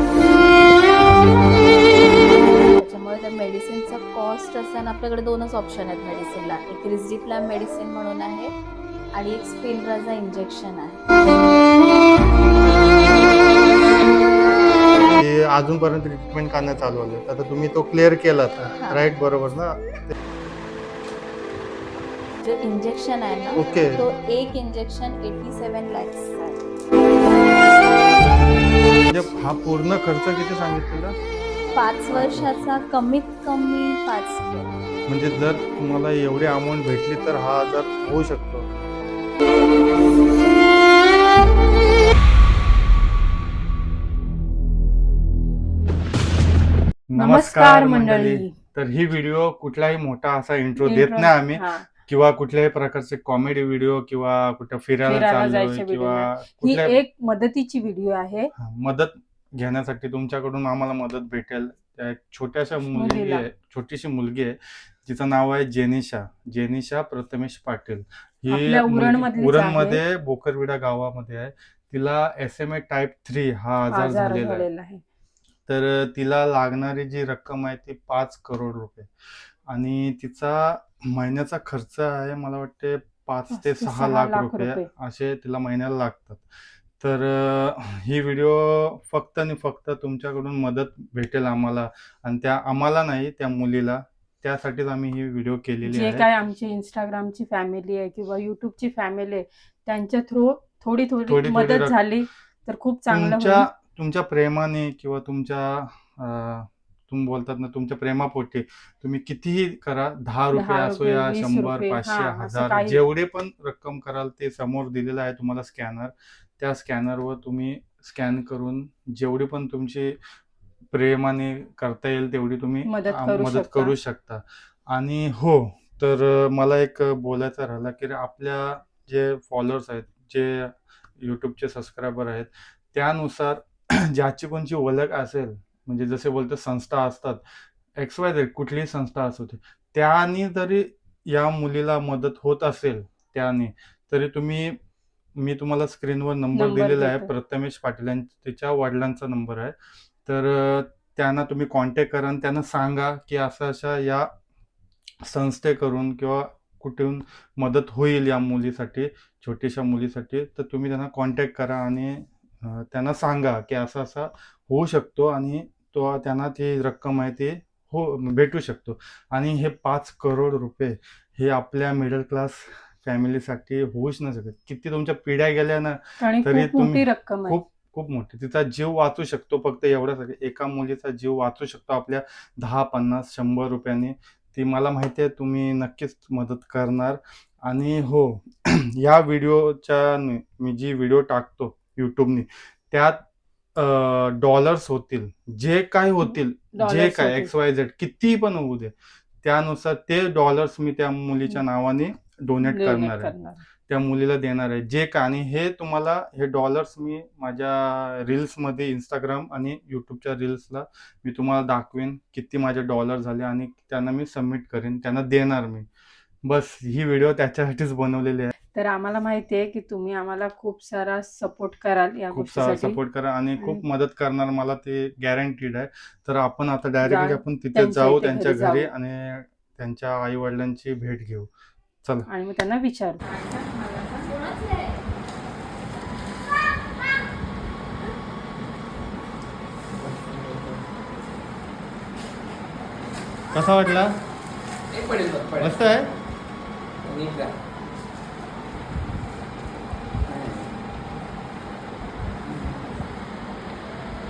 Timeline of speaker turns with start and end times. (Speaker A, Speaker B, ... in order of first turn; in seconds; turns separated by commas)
Speaker A: 1.6-8.5, Speaker A: 9.1-11.1, Speaker B: 15.1-20.1, Speaker A: 18.8-19.1, Speaker A: 22.4-26.6, Speaker B: 23.6-24.1, Speaker B: 29.1-31.2, Speaker A: 31.7-34.7, Speaker B: 32.1-32.8, Speaker B: 35.1-38.7, Speaker B: 47.1-57.0, Speaker C: 47.2-48.6, Speaker C: 50.8-51.9, Speaker C: 55.0-58.5, Speaker B: 58.6-74.7, Speaker C: 62.9-63.5, Speaker C: 68.5-70.0, Speaker C: 73.9-75.0, Speaker B: 75.7-96.3, Speaker C: 83.5-84.9, Speaker C: 95.8-103.7, Speaker B: 101.3-102.0, Speaker B: 103.1-120.2, Speaker C: 110.5-113.0, Speaker B: 120.9-137.4, Speaker C: 122.9-124.0, Speaker B: 138.0-144.8, Speaker B: 145.4-154.3, Speaker C: 146.6-147.3, Speaker B: 155.2-193.2, Speaker C: 176.2-177.6, Speaker B: 193.8-203.3, Speaker C: 196.2-197.5, Speaker C: 202.6-203.6, Speaker B: 203.9-215.9, Speaker B: 216.4-218.5, Speaker C: 218.7-223.0, Speaker B: 222.3-231.5, Speaker C: 223.6-223.8, Speaker C: 227.0-228.9, Speaker C: 232.3-234.3, Speaker A: 234.2-235.1, Speaker D: 240.0-240.9, Speaker B: 243.5-244.2, Speaker D: 244.9-245.9, Speaker B: 245.6-246.1, Speaker D: 247.0-247.6, Speaker D: 250.2-250.8, Speaker D: 252.4-252.9